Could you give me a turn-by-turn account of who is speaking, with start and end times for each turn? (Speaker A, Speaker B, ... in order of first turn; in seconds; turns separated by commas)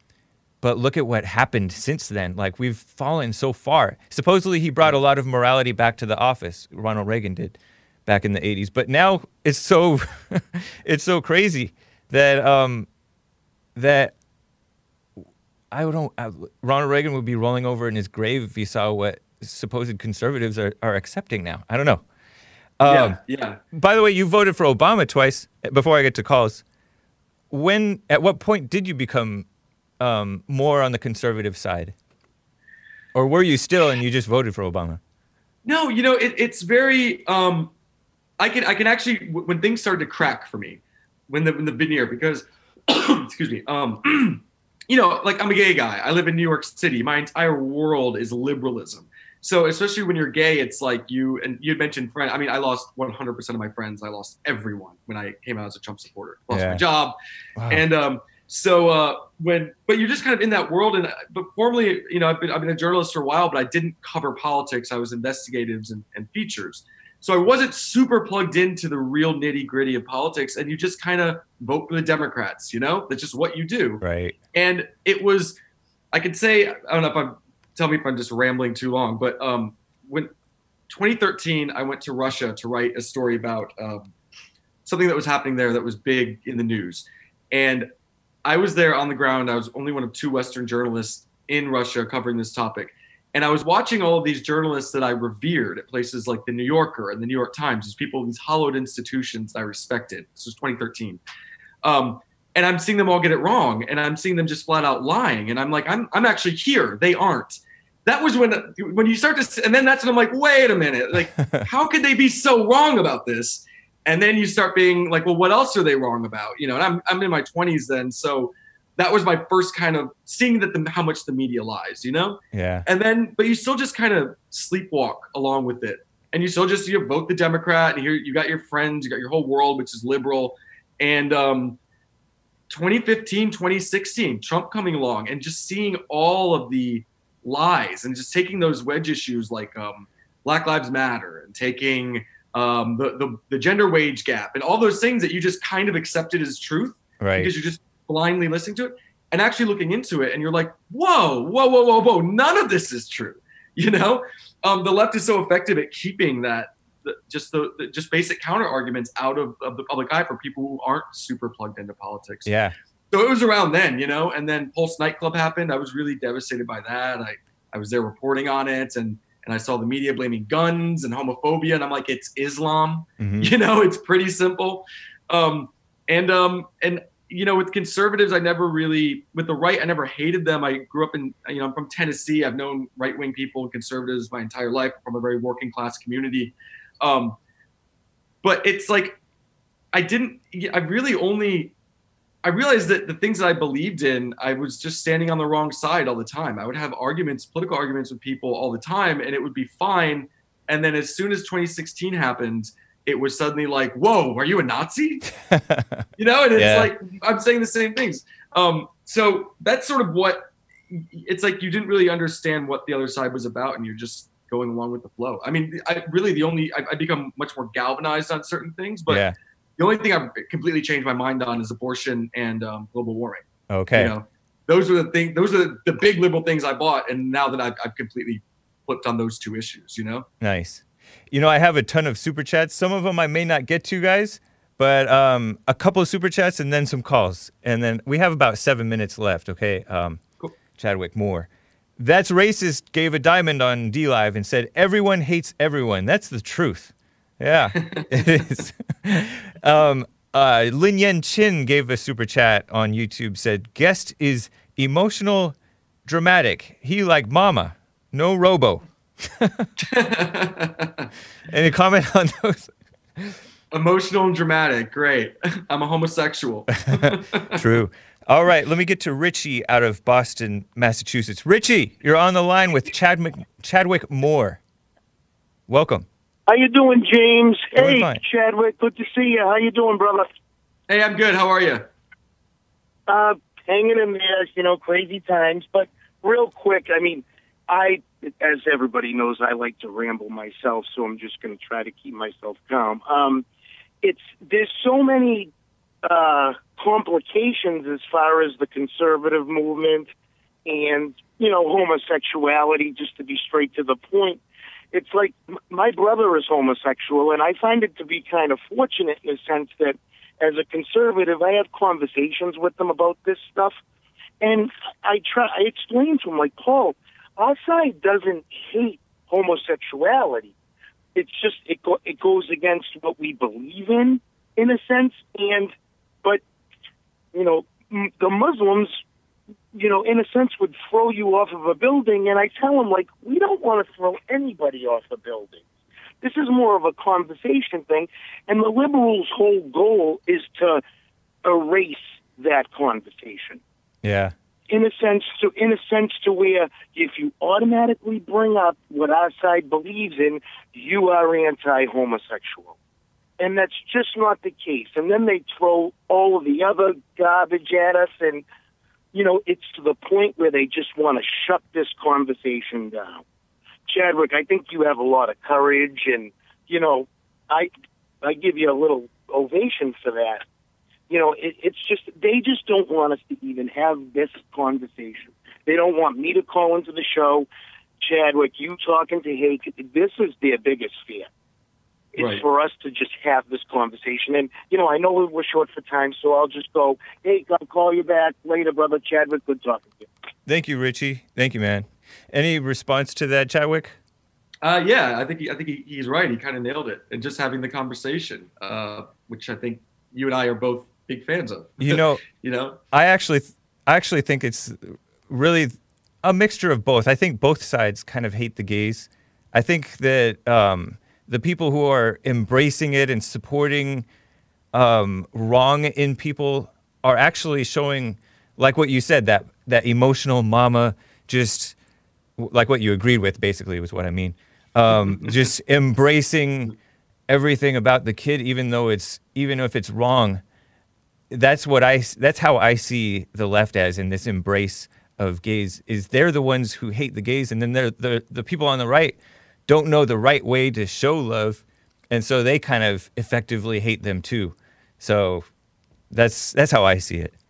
Speaker A: 0.6-12.9, Speaker A: 13.8-14.1, Speaker A: 15.7-22.0, Speaker A: 22.8-23.2, Speaker B: 22.8-23.6, Speaker A: 23.7-26.6, Speaker A: 27.5-29.4, Speaker A: 30.0-31.9, Speaker A: 33.1-35.0, Speaker B: 35.6-37.7, Speaker B: 38.4-57.1, Speaker A: 56.5-56.8, Speaker A: 57.6-57.8, Speaker B: 57.7-75.6, Speaker A: 74.0-74.3, Speaker B: 76.1-80.3, Speaker B: 80.9-84.1, Speaker B: 84.8-87.9, Speaker B: 88.4-101.2, Speaker B: 101.8-131.8, Speaker A: 122.5-122.8, Speaker B: 132.7-162.5, Speaker A: 147.2-147.5, Speaker A: 162.4-162.7, Speaker B: 163.1-187.4, Speaker A: 173.2-173.5, Speaker B: 188.4-189.2, Speaker B: 189.9-191.7, Speaker B: 192.4-205.2, Speaker A: 205.5-206.9, Speaker B: 206.2-219.2, Speaker A: 219.1-219.3, Speaker B: 219.8-230.3, Speaker A: 223.7-224.1, Speaker A: 230.4-240.2, Speaker A: 240.8-255.5, Speaker B: 247.8-248.0, Speaker A: 256.1-259.7, Speaker B: 259.8-261.1, Speaker A: 261.5-263.4, Speaker B: 263.7-267.6, Speaker A: 266.9-274.6, Speaker A: 275.7-276.1, Speaker C: 276.5-280.3, Speaker A: 277.8-278.2, Speaker B: 280.9-281.8, Speaker C: 283.1-293.4, Speaker C: 294.0-295.5, Speaker C: 296.0-300.1, Speaker C: 300.6-304.4, Speaker C: 304.9-313.8, Speaker C: 314.4-320.5, Speaker C: 321.1-326.4, Speaker C: 327.3-329.0, Speaker C: 329.7-335.6, Speaker C: 336.2-340.8, Speaker C: 341.4-343.6, Speaker A: 344.0-344.3, Speaker C: 344.7-352.7, Speaker C: 353.4-358.4, Speaker C: 359.1-363.2, Speaker C: 363.9-367.7, Speaker C: 368.2-370.4, Speaker C: 371.1-377.5, Speaker C: 378.0-381.3, Speaker C: 382.1-390.1, Speaker B: 382.2-382.4, Speaker A: 390.4-393.9, Speaker B: 394.6-402.8, Speaker A: 401.8-402.2, Speaker A: 402.9-414.1, Speaker A: 414.7-421.8, Speaker A: 422.4-426.7, Speaker B: 425.1-425.3, Speaker A: 427.3-430.4, Speaker A: 431.3-445.4, Speaker A: 446.1-447.3